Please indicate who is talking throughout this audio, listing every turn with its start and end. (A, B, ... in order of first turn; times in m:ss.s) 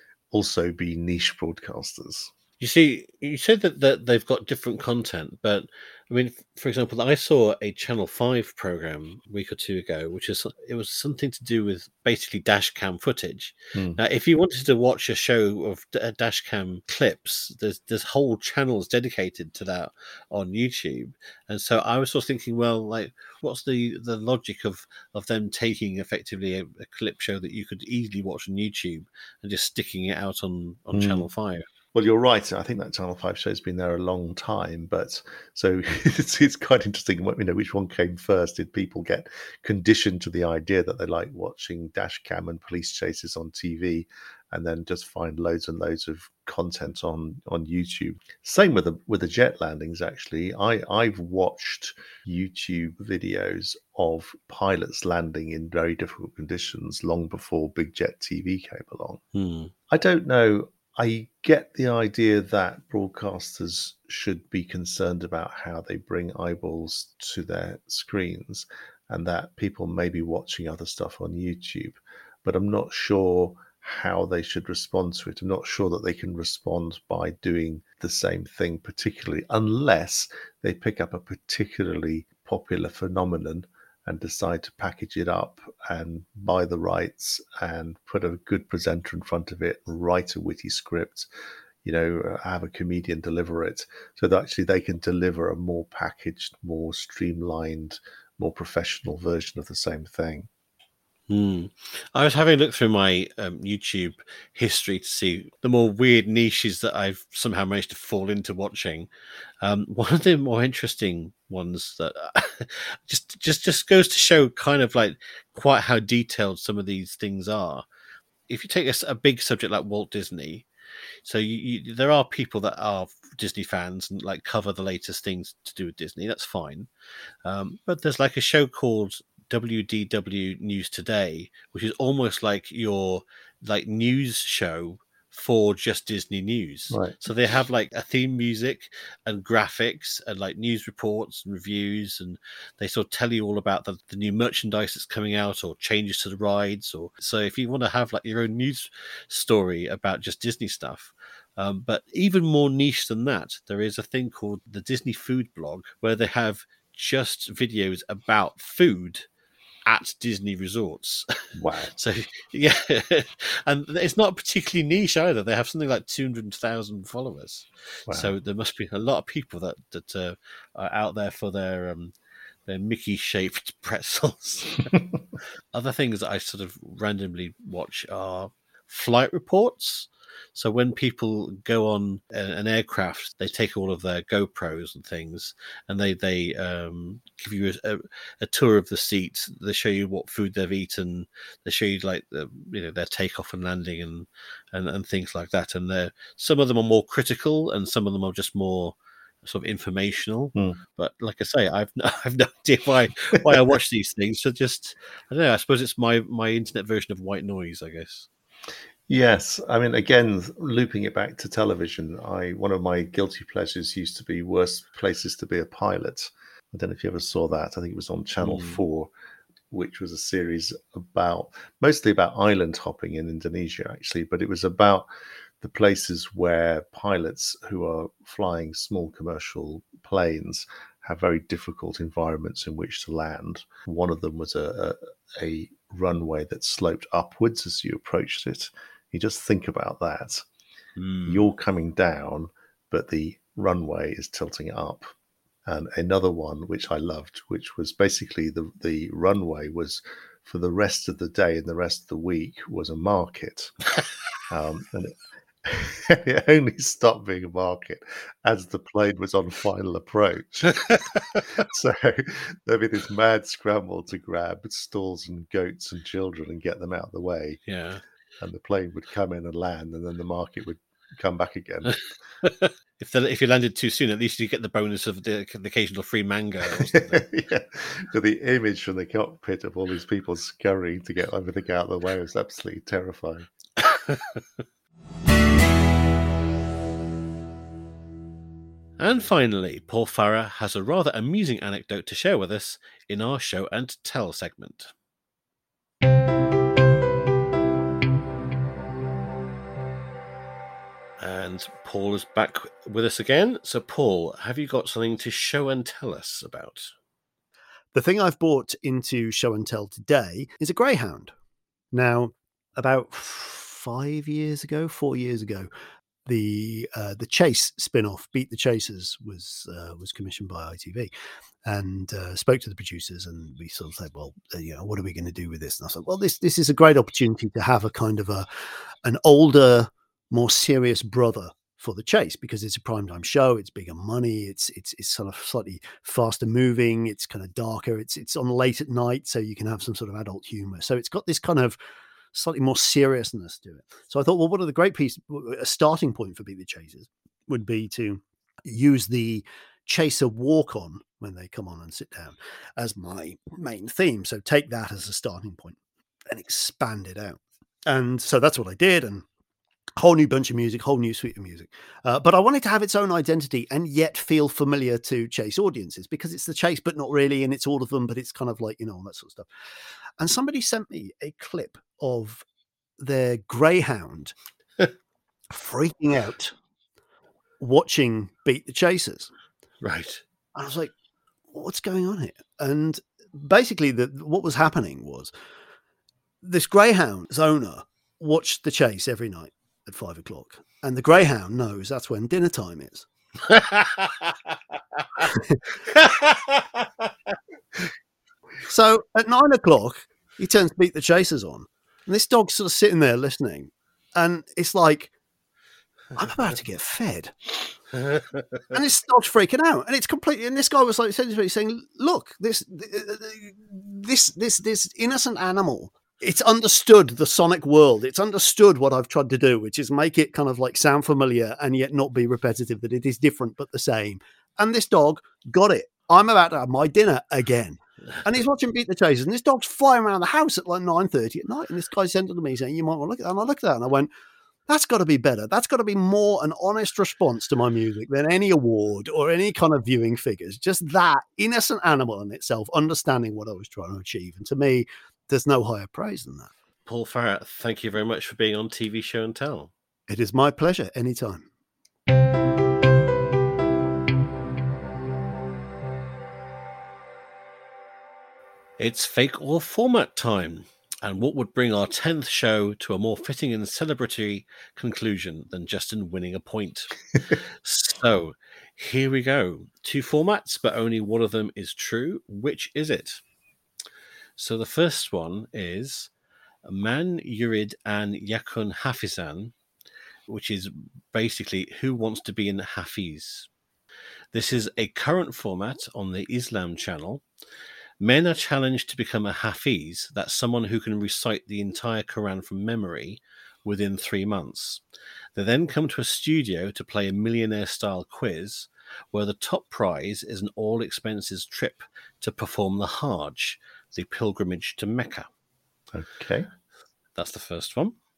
0:00.3-0:02.3 A
0:02.6-0:31.6 B
0:13.7-0:14.0 A
0:30.9-0:31.3 A
0:31.9-0:59.2 A
0:59.3-0:59.7 B
0:59.9-1:31.3 A
1:31.8-1:40.5 A
1:41.3-1:49.1 B
1:49.6-1:57.8 B
1:58.5-2:00.6 B
2:01.2-2:06.9 B
2:07.4-2:39.3 B
2:16.9-2:17.2 A
2:39.8-2:41.2 B
2:41.6-2:41.9 A
2:41.9-2:52.1 B
2:48.1-2:48.3 A
2:52.7-2:54.9 B
2:55.7-3:28.3 B
3:29.1-3:39.1 A
3:38.4-3:38.8 B
3:39.7-3:45.1 A
3:45.6-4:00.4 A
4:01.0-4:01.5 B
4:01.3-4:05.1 A
4:05.6-4:13.8 A
4:14.5-4:20.8 A
4:20.9-4:21.4 B
4:21.4-4:27.6 A
4:27.7-4:28.0 B
4:28.4-4:32.0 A
4:32.4-4:37.3 B
4:36.9-4:43.5 A
4:43.8-4:44.4 B
4:49.0-4:54.9 B
5:01.2-5:06.9 B
5:07.9-5:11.3 C
5:11.9-5:15.7 C
5:16.2-5:21.1 C
5:21.6-5:28.5 C
5:29.0-5:41.8 C
5:42.3-5:55.8 C
5:56.3-5:59.2 C
6:00.0-6:09.5 C
6:10.2-6:12.4 C
6:13.0-6:14.3 C
6:15.5-6:16.5 C
6:17.6-6:19.3 C
6:19.8-6:20.2 B
6:20.5-6:20.9 C
6:21.5-6:25.3 C
6:26.4-6:33.0 C
6:33.5-6:35.2 B
6:35.9-6:37.1 B
6:38.7-6:45.1 C
6:46.2-6:47.6 C
6:47.9-6:48.6 B
6:48.7-7:14.1 C
7:14.7-7:26.5 C
7:26.8-7:29.7 B
7:30.1-7:31.5 C
7:38.8-7:47.0 B
7:47.6-7:53.2 B
7:54.4-7:56.1 B
7:56.6-7:59.5 B
8:00.3-8:03.5 B
8:04.3-8:07.2 B
8:08.0-8:14.8 B
8:15.3-8:25.3 B
8:25.9-8:26.5 A
8:27.2-8:28.0 B